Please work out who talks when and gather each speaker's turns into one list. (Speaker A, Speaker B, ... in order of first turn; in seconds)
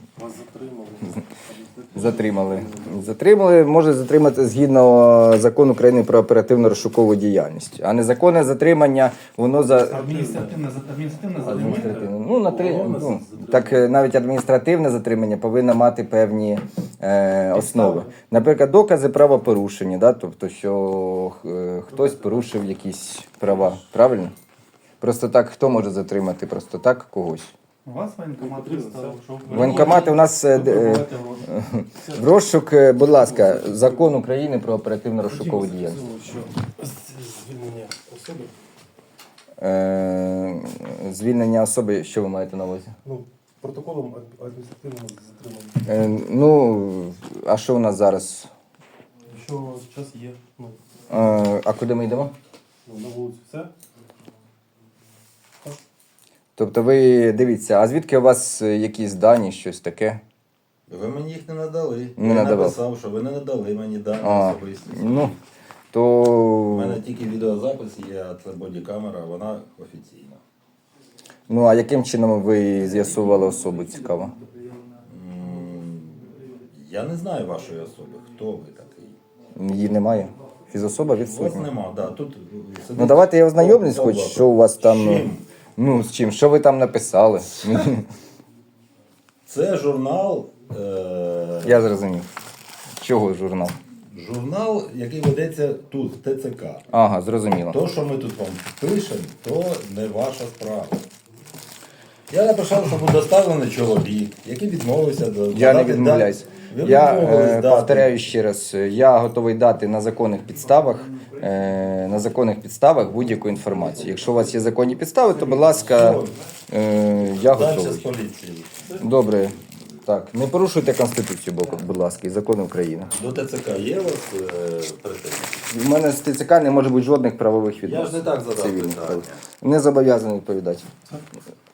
Speaker A: 0.2-3.1, 9.6-10.6, 11.4-13.9, 17.5-18.1, 21.9-22.5, 28.4-30.1, 32.0-32.4, 32.9-34.2, 35.2-38.5, 43.0-45.9, 49.2-50.8, 52.8-53.7, 113.6-114.9
Speaker B: 1.9-10.1, 11.4-24.3, 25.0-27.5, 29.5-36.0, 39.6-42.9, 45.9-48.5, 51.1-52.3, 56.6-60.2, 62.2-62.8, 64.2-65.3, 65.9-67.0, 71.5-74.3, 79.5-81.7, 83.0-88.1, 91.6-92.3, 93.0-93.8, 96.9-97.8, 105.5-118.1, 119.0-123.1, 125.7-130.9
Speaker C: 9.9-11.9, 27.8-31.5
Speaker D: 60.9-65.4, 66.7-70.4, 75.0-79.2, 81.2-85.5, 89.5-91.9, 94.1-96.9, 97.7-101.0, 102.3-108.3, 115.5-116.4, 117.3-118.9, 123.1-125.7, 127.8-129.4